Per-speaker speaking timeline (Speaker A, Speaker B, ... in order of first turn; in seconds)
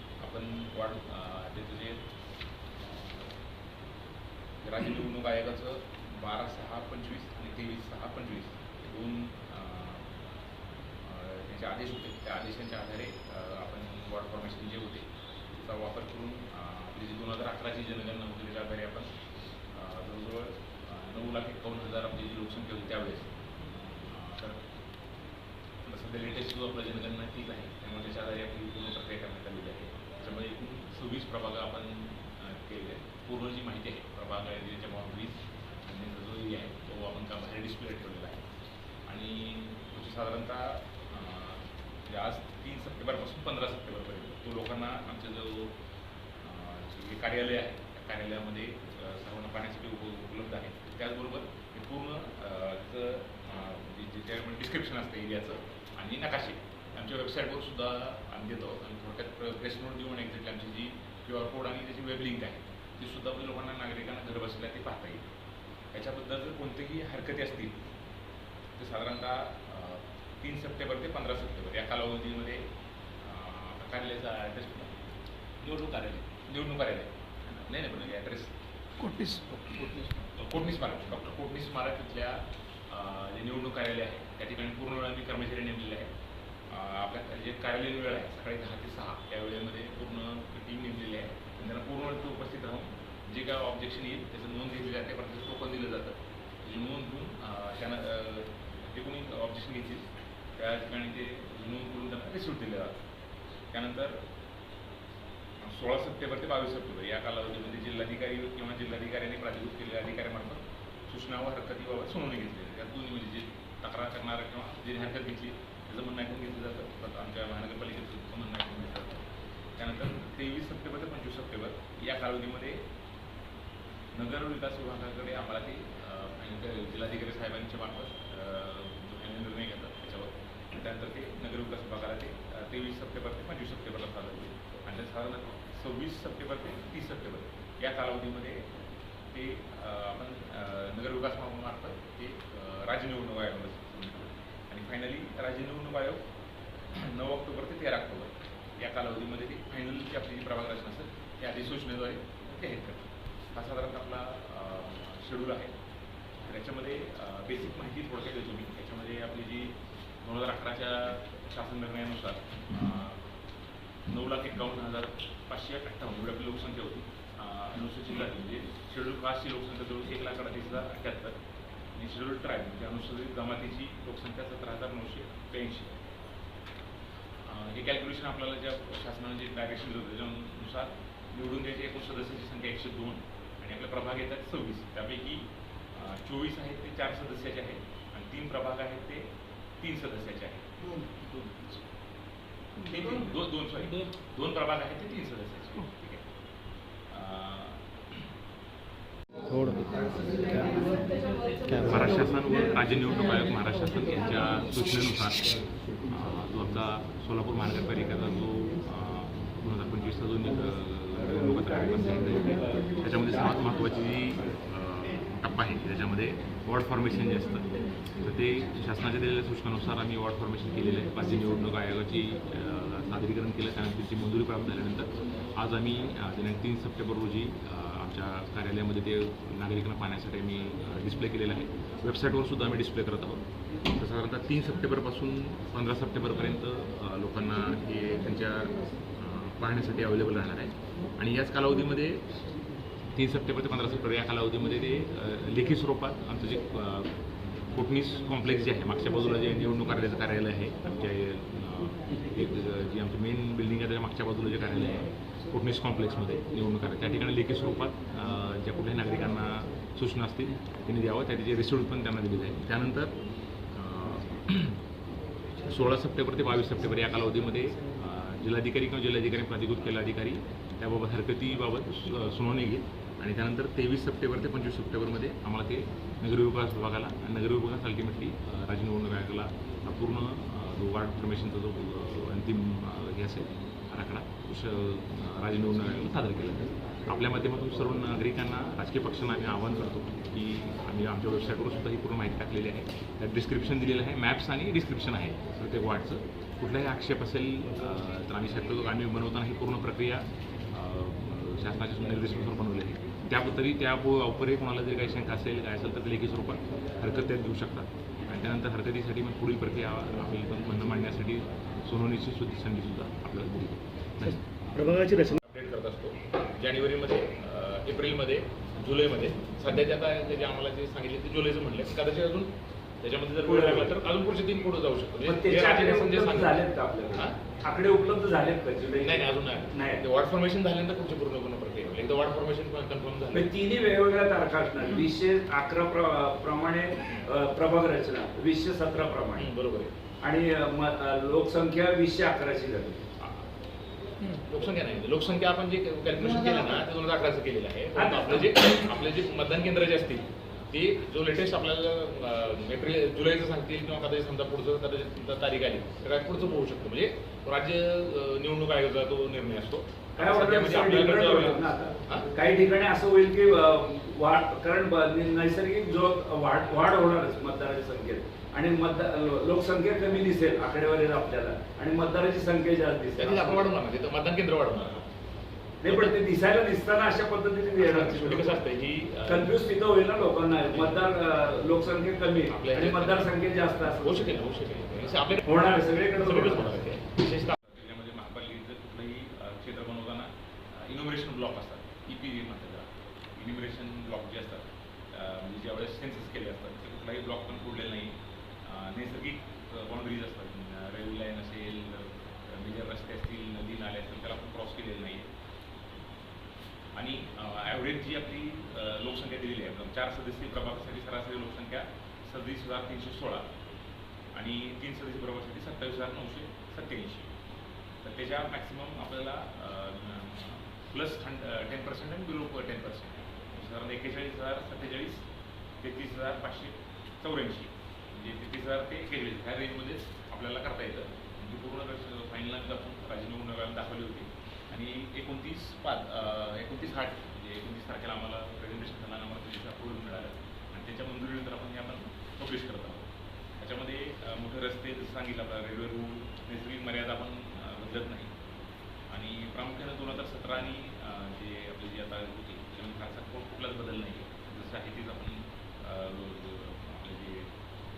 Speaker A: 0.2-2.1, 2.8-3.4, 4.6-10.1, 11.0-19.1, 19.7-24.6, 25.8-38.5, 39.0-45.8, 46.4-65.3, 65.9-67.8, 68.8-72.7, 73.2-75.0, 75.6-79.1, 80.1-86.1, 86.7-103.0, 103.7-104.2, 105.6-122.9, 124.1-138.7, 139.3-146.3, 146.9-155.8, 156.4-163.2, 164.1-171.4, 171.9-175.9, 177.4-191.0, 192.8-196.2, 197.1-198.2, 201.8-242.3, 243.1-247.1, 247.7-263.1, 263.7-264.8, 265.6-326.6, 327.1-327.4, 329.0-333.5, 339.4-339.9, 344.2-362.3, 373.2-375.1, 375.9-376.1, 377.8-379.5, 380.7-381.1, 382.5-383.3, 384.0-405.3, 406.9-413.5, 414.3-417.3, 418.0-425.3, 425.8-448.3, 449.1-457.5
Speaker B: 79.0-80.1, 191.2-191.8, 199.5-200.9
Speaker C: 323.4-323.9, 325.2-330.0, 333.3-339.5, 340.2-343.0, 347.9-348.6, 360.2-373.7, 375.8-378.6, 379.2-384.4, 385.4-386.8